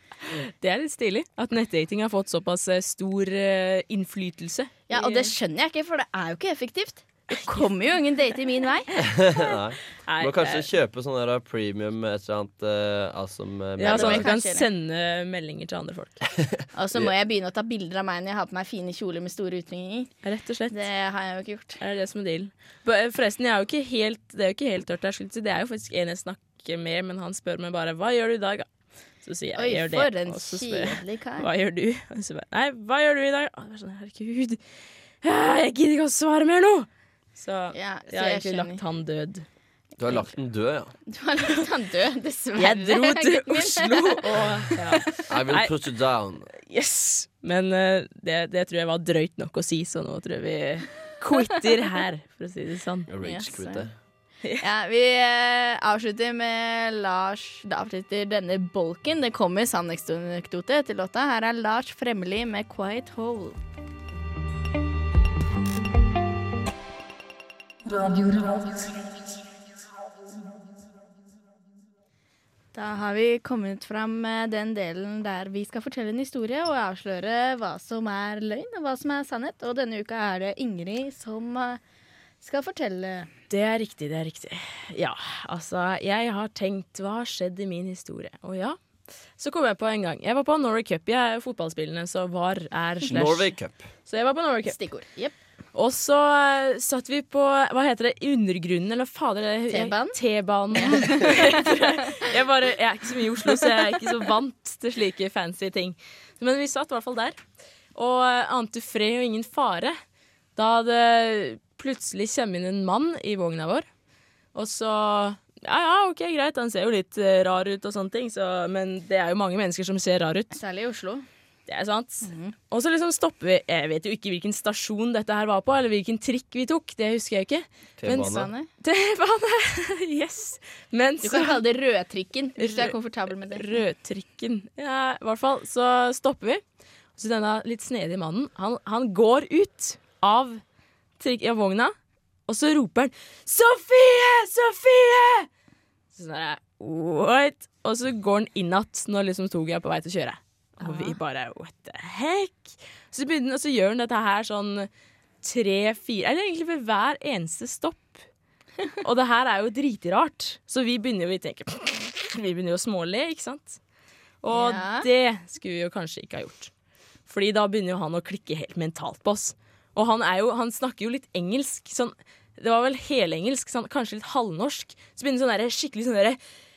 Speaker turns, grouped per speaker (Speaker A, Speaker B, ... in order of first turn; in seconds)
Speaker A: 0.3-5.3, 7.3-7.7, 10.1-10.7, 13.8-16.2, 20.2-20.8, 21.8-28.7, 29.2-34.6, 35.2-39.5, 42.6-45.7, 46.6-53.1, 83.5-88.8, 89.3-94.8, 95.7-107.4, 107.9-110.0, 110.5-113.9, 114.5-120.6, 121.7-131.6, 132.6-136.6, 137.2-140.6, 141.2-141.9, 142.5-145.5, 146.1-154.9, 155.4-158.2, 159.0-163.8, 164.4-166.7, 167.2-176.4
Speaker B: 4.9-8.9, 13.8-14.7, 16.7-20.1, 20.7-21.8, 29.6-31.5, 37.7-38.8, 41.1-44.2, 53.2-53.8, 54.6-63.6, 72.7-81.8, 82.4-83.3, 94.7-95.3, 99.7-100.2, 100.7-101.7, 120.5-121.2, 122.2-122.5, 128.1-128.7, 131.2-133.6, 150.8-151.2, 164.5-165.1
Speaker C: 9.0-14.3, 40.0-40.9, 45.3-46.5, 53.1-53.9, 93.1-93.8, 128.0-128.5